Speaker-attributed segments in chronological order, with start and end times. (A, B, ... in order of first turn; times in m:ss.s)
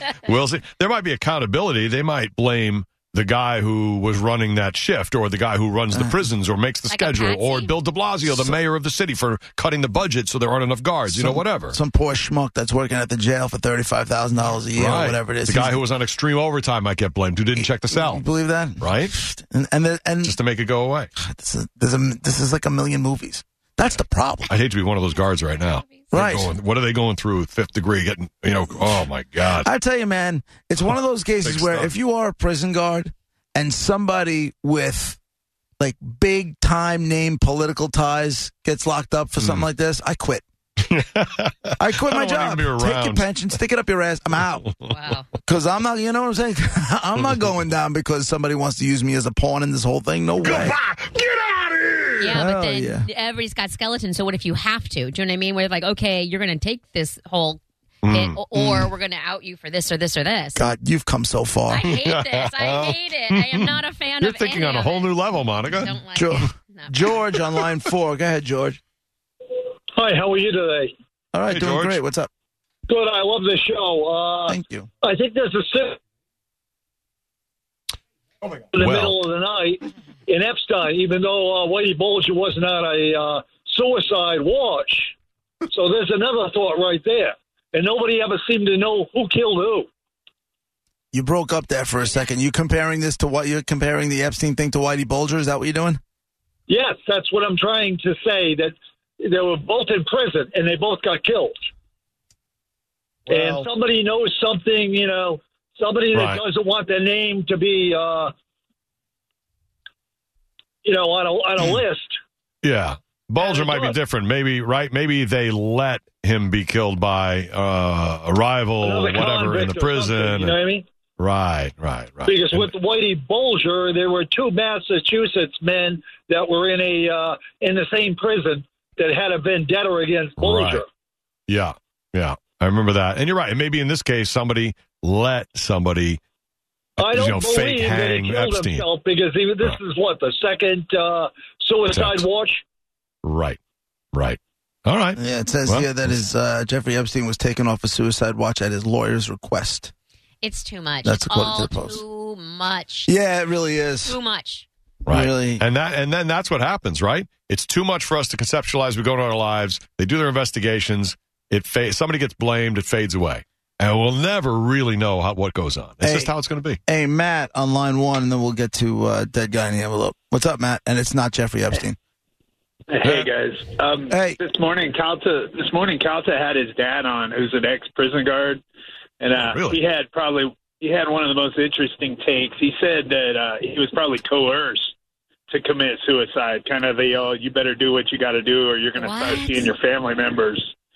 0:00.2-0:11.8 A
0:05.9-0:06.2 B
0:06.9-0:07.7 C
0:08.3-0:08.5 B
0:11.1-0:15.8 B
0:14.7-0:18.2 A
0:17.6-0:20.4 B
0:18.8-0:19.1 A
0:20.2-0:21.1 A
0:21.2-0:24.5 B
0:23.9-0:29.7 A
0:25.6-0:26.1 C
0:26.1-0:26.5 B
0:29.6-0:35.2 B
0:31.4-0:31.9 A
0:35.8-0:40.4 B
0:39.4-0:39.6 A
0:40.8-0:43.4 A
0:41.8-0:44.7 B
0:44.9-0:45.3 C
0:45.4-0:50.8 B
0:50.4-0:52.4 A
0:52.2-1:00.6 C
0:52.3-0:53.0 B
0:58.0-0:58.4 A
0:58.5-0:58.9 B
1:00.6-1:01.9 B
1:01.7-1:07.0 C
1:01.9-1:06.4 A
1:06.1-1:08.8 B
1:09.9-1:10.9 D
1:11.3-1:12.3 B
1:11.5-1:12.0 A
1:12.9-1:16.0 D
1:14.5-1:14.9 B
1:18.7-1:25.1 D
1:18.7-1:19.2 A
1:25.7-1:29.9 D
1:31.1-1:36.0 B
1:36.7-1:41.7 D
1:43.3-1:43.7 A
1:43.3-1:48.3 D
1:46.1-1:46.4 A
1:50.8-1:52.2 D
1:52.6-2:00.6 A
1:53.4-1:54.0 D
1:58.8-2:00.8 D
2:01.2-2:02.7 A
2:02.2-2:10.8 D
2:10.4-2:10.8 A
2:11.5-2:16.2 A
2:17.0-2:22.6 D
2:17.0-2:18.9 A
2:21.9-2:22.3 A
2:23.2-2:23.6 A
2:24.1-2:25.9 A
2:25.2-2:29.9 B
2:30.4-2:33.1 C
2:31.0-2:32.0 B
2:33.0-2:34.2 B
2:34.0-2:34.6 C
2:35.0-2:35.6 B
2:35.0-2:46.8 A
2:46.0-2:46.3 B
2:46.9-2:52.0 B
2:52.9-2:58.6 E
2:53.0-2:53.3 A
2:54.1-2:54.4 B
2:59.2-3:04.9 E
2:59.3-2:59.8 A
3:05.5-3:10.7 E
3:09.0-3:09.7 C